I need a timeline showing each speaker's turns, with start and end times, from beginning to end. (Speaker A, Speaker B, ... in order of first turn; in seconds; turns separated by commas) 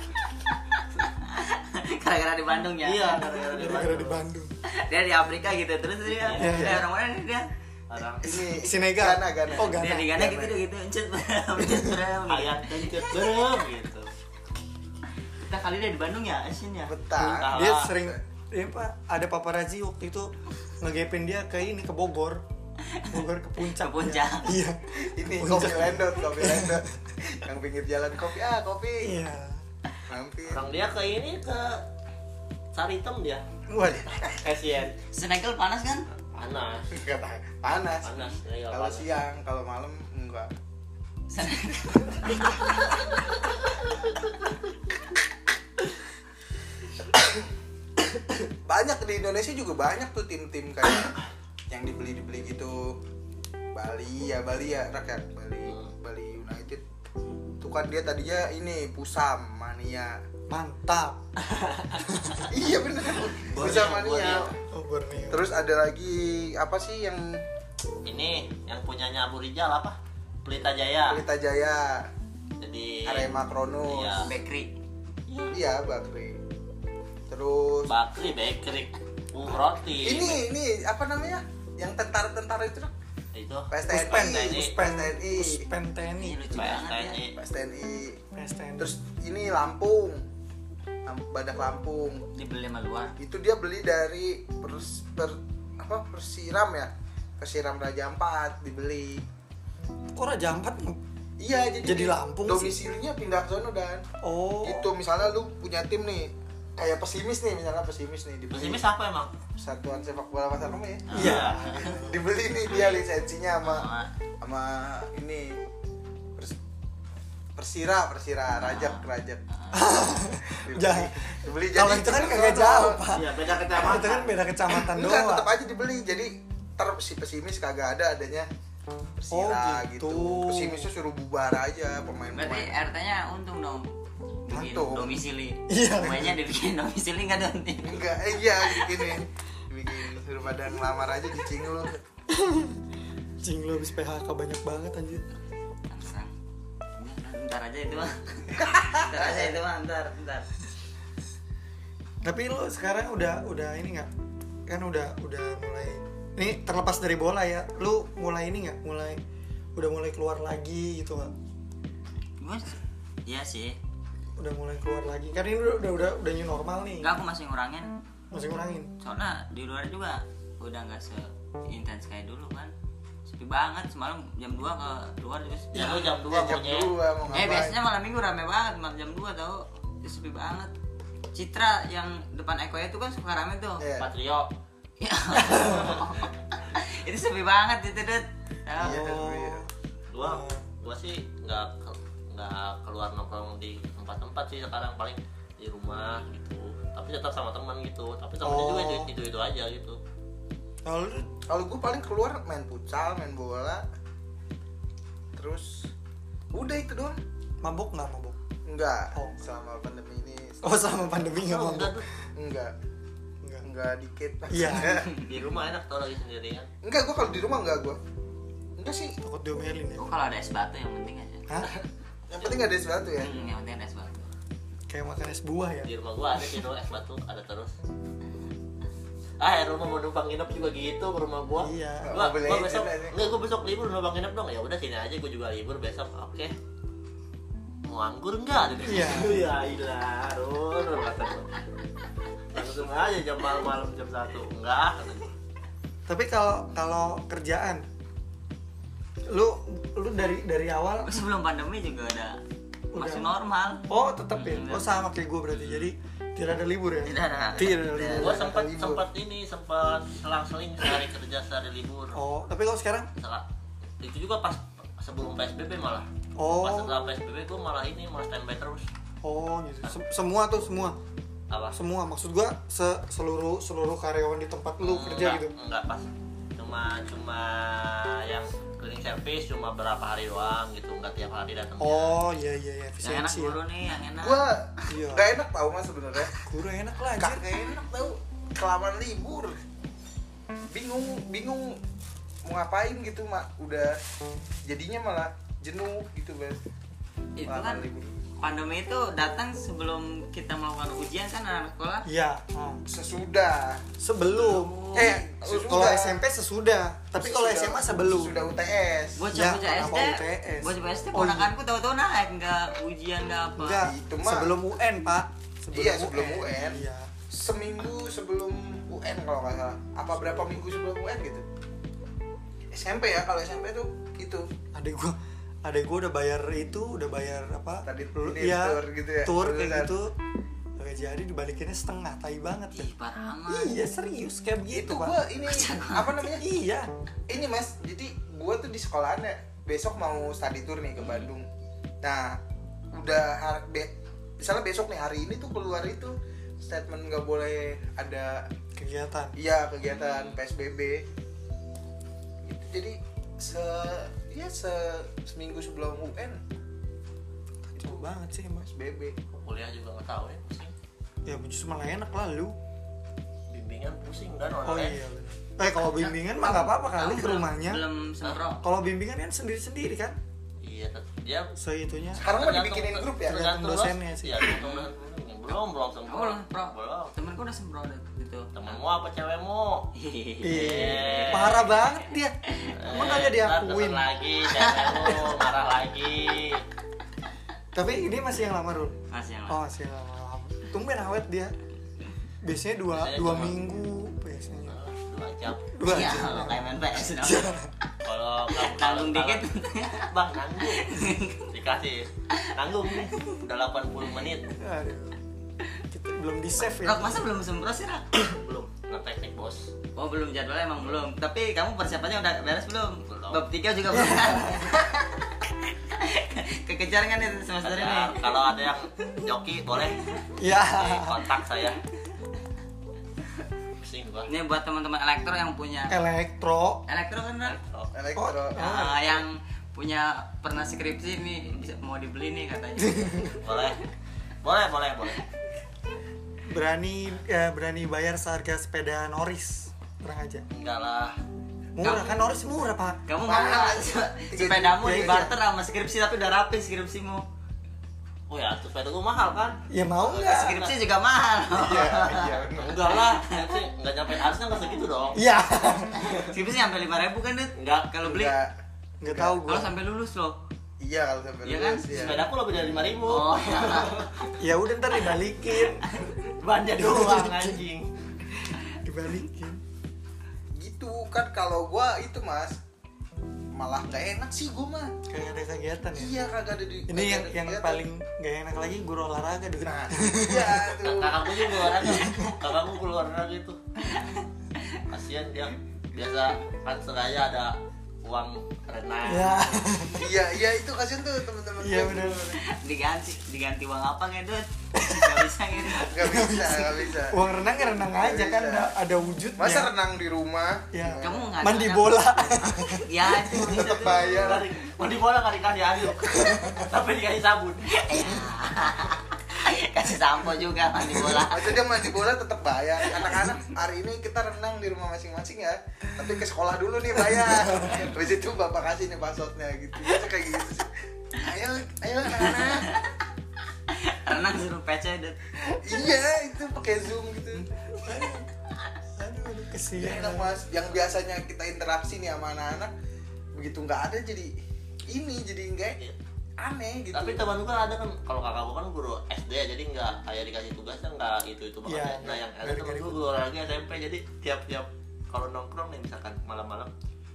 Speaker A: 1.1-3.5, Speaker B: 2.8-4.2, Speaker C: 3.4-4.5, Speaker A: 4.7-7.5, Speaker B: 6.1-6.8, Speaker C: 6.4-6.8, Speaker B: 7.9-8.5, Speaker D: 8.2-10.5, Speaker C: 8.5-10.4, Speaker A: 9.6-13.1, Speaker C: 11.6-12.0, Speaker B: 12.3-14.1, Speaker A: 15.4-16.9, Speaker D: 16.9-18.2, Speaker C: 17.1-22.4, Speaker B: 17.3-17.9, Speaker A: 22.9-24.6, Speaker C: 23.1-26.8, Speaker D: 25.0-29.2, Speaker C: 29.0-29.6, Speaker D: 30.1-30.6, Speaker B: 30.5-31.8, Speaker B: 32.7-33.4, Speaker C: 33.7-34.2, Speaker B: 34.2-35.0, Speaker A: 35.1-36.1, Speaker B: 36.3-36.9, Speaker D: 36.9-38.2, Speaker B: 38.0-39.1, Speaker D: 38.7-40.5, Speaker A: 41.3-42.6, Speaker D: 48.6-51.2, Speaker D: 51.7-53.0, Speaker D: 53.7-56.8, Speaker D: 57.6-60.2, Speaker C: 60.5-61.3, Speaker B: 61.4-62.3, Speaker C: 62.1-62.4, Speaker D: 62.5-64.5, Speaker B: 63.3-64.5, Speaker C: 64.7-65.5, Speaker D: 65.3-67.4, Speaker B: 68.0-71.2, Speaker D: 71.1-72.1, Speaker B: 72.6-74.3, Speaker D: 73.0-74.2, Speaker A: 74.2-74.7, Speaker B: 75.3-75.6, Speaker D: 75.5-76.4, Speaker D: 77.3-77.9, Speaker B: 77.9-80.5, Speaker D: 80.0-82.9, Speaker B: 83.3-84.7, Speaker D: 83.7-85.7, Speaker C: 83.9-86.7, Speaker A: 86.2-87.2, Speaker B: 86.5-87.3, Speaker D: 87.3-88.2, Speaker C: 88.3-89.0, Speaker D: 88.8-90.2, Speaker D: 91.0-92.2, Speaker A: 92.3-93.2, Speaker D: 93.2-99.2, Speaker C: 100.1-101.0, Speaker D: 101.4-104.0, Speaker C: 101.8-102.8, Speaker C: 104.2-104.9, Speaker D: 104.6-108.8, Speaker B: 108.5-109.3, Speaker D: 109.6-111.4, Speaker B: 111.1-111.7, Speaker C: 111.1-112.2, Speaker A: 111.1-112.0, Speaker D: 111.9-115.6, Speaker A: 112.7-113.0, Speaker A: 113.6-114.1, Speaker D: 117.5-119.4, Speaker A: 118.6-119.0, Speaker C: 119.7-125.5, Speaker D: 120.6-123.0, Speaker B: 123.1-124.3, Speaker D: 124.7-128.5, Speaker D: 129.2-132.7, Speaker C: 129.3-130.9, Speaker A: 132.3-133.9, Speaker A: 134.4-138.8, Speaker C: 134.5-134.8, Speaker D: 134.5-135.2, Speaker C: 135.7-136.4, Speaker D: 137.8-142.0, Speaker C: 142.3-142.8, Speaker C: 143.4-145.2, Speaker A: 145.9-146.3, Speaker A: 147.0-150.5, Speaker D: 148.5-149.6, Speaker C: 152.2-154.1, Speaker C: 154.7-159.2, Speaker C: 159.7-161.3, Speaker A: 162.4-163.8, Speaker C: 164.4-167.1, Speaker A: 167.0-167.9, Speaker C: 168.3-168.9, Speaker A: 169.0-172.7, Speaker A: 173.2-176.1, Speaker B: 175.7-176.9, Speaker D: 176.2-177.8, Speaker A: 177.3-180.7, Speaker A: 181.3-183.8, Speaker D: 183.8-184.1, Speaker B: 184.0-184.5, Speaker A: 185.0-189.0, Speaker C: 185.3-185.8, Speaker B: 185.6-186.1, Speaker D: 188.8-189.6, Speaker C: 188.8-189.7, Speaker B: 190.1-200.0, Speaker C: 190.2-190.7, Speaker C: 198.4-199.1, Speaker C: 200.8-201.3, Speaker D: 201.5-203.8, Speaker D: 205.3-205.9, Speaker D: 206.5-207.2, Speaker C: 207.6-208.4, Speaker D: 208.6-211.1, Speaker C: 209.1-209.4, Speaker C: 210.6-212.0, Speaker B: 211.3-212.1, Speaker D: 212.3-212.7, Speaker D: 213.6-215.2, Speaker C: 214.5-215.0, Speaker B: 215.1-216.7, Speaker D: 216.8-218.0, Speaker D: 218.8-219.2, Speaker C: 219.2-220.0, Speaker A: 220.0-221.7, Speaker D: 222.3-223.3, Speaker B: 222.4-222.6, Speaker A: 223.2-224.3, Speaker C: 224.9-225.9, Speaker B: 225.8-227.7, Speaker B: 229.4-236.5, Speaker C: 231.6-232.2, Speaker D: 232.0-233.2, Speaker B: 237.8-241.6, Speaker C: 238.8-239.4, Speaker B: 242.5-245.3, Speaker C: 246.1-247.8, Speaker C: 249.3-251.3, Speaker A: 251.0-252.4, Speaker C: 252.9-253.3, Speaker A: 252.9-254.9, Speaker C: 253.9-258.4, Speaker A: 257.1-258.2, Speaker D: 257.8-259.0, Speaker B: 258.2-262.2, Speaker C: 262.1-263.1, Speaker B: 263.2-263.4, Speaker B: 264.0-266.1, Speaker C: 266.4-266.9, Speaker B: 266.6-268.9, Speaker C: 269.2-271.0, Speaker B: 271.5-271.8, Speaker C: 271.7-275.5, Speaker B: 274.8-276.1, Speaker B: 276.6-282.2, Speaker C: 281.8-283.6, Speaker A: 283.0-284.4, Speaker D: 284.2-286.4, Speaker C: 284.9-285.3, Speaker C: 286.4-287.4, Speaker D: 287.1-289.6, Speaker D: 290.7-291.8, Speaker D: 292.4-294.0, Speaker D: 294.6-296.6, Speaker A: 297.4-297.8, Speaker D: 297.4-298.1, Speaker A: 298.4-302.1, Speaker C: 302.0-302.8, Speaker D: 302.9-303.8, Speaker C: 304.0-308.4, Speaker A: 304.3-305.2, Speaker D: 304.9-306.2, Speaker D: 307.2-309.2, Speaker A: 309.2-313.9, Speaker C: 309.3-311.5, Speaker C: 313.6-317.1, Speaker D: 313.8-314.6, Speaker D: 315.7-321.4, Speaker C: 320.2-320.6, Speaker D: 322.7-324.5, Speaker C: 324.7-330.1, Speaker D: 327.8-329.9, Speaker C: 330.8-332.9, Speaker A: 332.7-333.7, Speaker C: 333.5-335.2, Speaker D: 334.7-336.4, Speaker A: 335.4-336.2, Speaker C: 336.4-336.9, Speaker D: 337.3-341.5, Speaker B: 341.0-341.3, Speaker D: 342.0-342.4, Speaker D: 342.9-348.5, Speaker C: 348.8-349.4, Speaker D: 349.3-351.0, Speaker B: 349.8-350.4, Speaker D: 352.4-356.4, Speaker C: 357.7-358.7, Speaker D: 358.6-359.1, Speaker B: 359.3-360.7, Speaker C: 361.2-362.5, Speaker B: 363.5-365.0, Speaker C: 364.6-367.8, Speaker A: 366.0-368.6, Speaker C: 368.6-370.2, Speaker B: 370.6-371.5, Speaker C: 371.6-372.2, Speaker B: 372.1-377.1, Speaker D: 372.2-373.4, Speaker C: 373.2-374.5, Speaker A: 374.5-374.9, Speaker A: 376.1-378.5, Speaker B: 378.5-379.9, Speaker A: 379.9-381.6, Speaker C: 380.4-382.4, Speaker B: 380.4-381.7, Speaker A: 382.5-382.8, Speaker B: 382.7-386.6, Speaker C: 382.9-384.1, Speaker A: 384.6-385.1, Speaker C: 385.1-385.4, Speaker C: 387.7-388.9, Speaker A: 389.1-389.6, Speaker C: 389.5-391.5, Speaker C: 392.4-394.8, Speaker B: 392.9-393.6, Speaker B: 394.7-395.7, Speaker C: 395.7-397.7, Speaker A: 395.8-397.6, Speaker B: 398.0-400.9, Speaker A: 398.5-400.1, Speaker A: 400.7-401.5, Speaker B: 401.5-404.6, Speaker A: 403.0-403.3, Speaker C: 404.5-405.1, Speaker C: 405.9-407.3, Speaker A: 406.8-408.4, Speaker B: 408.3-409.7, Speaker A: 409.9-418.3, Speaker B: 413.1-413.4, Speaker C: 413.9-414.8, Speaker B: 417.6-420.0, Speaker C: 420.4-421.2, Speaker B: 420.6-421.8, Speaker B: 423.8-424.3, Speaker A: 424.3-426.0, Speaker C: 425.9-426.8, Speaker A: 426.9-427.6, Speaker B: 427.4-427.9, Speaker D: 427.9-428.9, Speaker C: 428.1-429.0, Speaker A: 428.5-433.6, Speaker C: 432.8-433.4, Speaker B: 433.4-433.8, Speaker B: 434.4-435.2, Speaker C: 436.4-440.4, Speaker B: 440.5-441.2, Speaker C: 441.7-443.0, Speaker A: 441.8-442.2, Speaker A: 443.1-447.2, Speaker D: 443.2-445.3, Speaker C: 444.8-445.3, Speaker B: 448.3-450.8, Speaker C: 449.7-450.6, Speaker A: 450.2-453.5, Speaker D: 451.5-453.0, Speaker B: 452.6-455.2, Speaker C: 455.1-456.2, Speaker A: 455.9-458.4, Speaker B: 457.6-457.9, Speaker D: 458.0-459.4, Speaker C: 459.0-459.7, Speaker A: 459.4-460.4, Speaker D: 460.8-462.3, Speaker A: 461.4-461.8, Speaker B: 461.9-464.3, Speaker A: 463.0-464.1, Speaker C: 464.4-465.9, Speaker B: 466.2-467.9, Speaker C: 466.8-467.6, Speaker C: 468.5-469.6, Speaker D: 470.6-472.6, Speaker D: 473.5-474.9, Speaker C: 475.1-476.1, Speaker D: 475.9-477.8, Speaker C: 476.9-480.8, Speaker D: 479.6-481.7, Speaker B: 480.8-483.6, Speaker C: 481.7-482.4, Speaker A: 483.9-484.8, Speaker B: 484.9-489.6, Speaker C: 489.0-490.1, Speaker D: 490.0-492.4, Speaker C: 491.6-492.3, Speaker A: 492.4-496.2, Speaker C: 494.7-499.7, Speaker D: 495.8-497.3, Speaker D: 497.9-498.7, Speaker D: 499.4-501.4, Speaker C: 500.7-503.7, Speaker A: 501.0-504.3, Speaker D: 503.5-504.5, Speaker B: 503.7-508.2, Speaker C: 506.0-506.6, Speaker A: 507.7-511.7, Speaker D: 511.1-522.7, Speaker A: 513.0-513.3, Speaker A: 522.3-522.9, Speaker A: 523.7-525.3, Speaker D: 525.5-527.5, Speaker C: 527.7-528.3, Speaker C: 529.0-530.4, Speaker D: 529.8-532.7, Speaker D: 533.3-534.3, Speaker D: 534.9-535.8, Speaker D: 536.4-537.2, Speaker B: 536.9-546.7, Speaker C: 541.6-543.0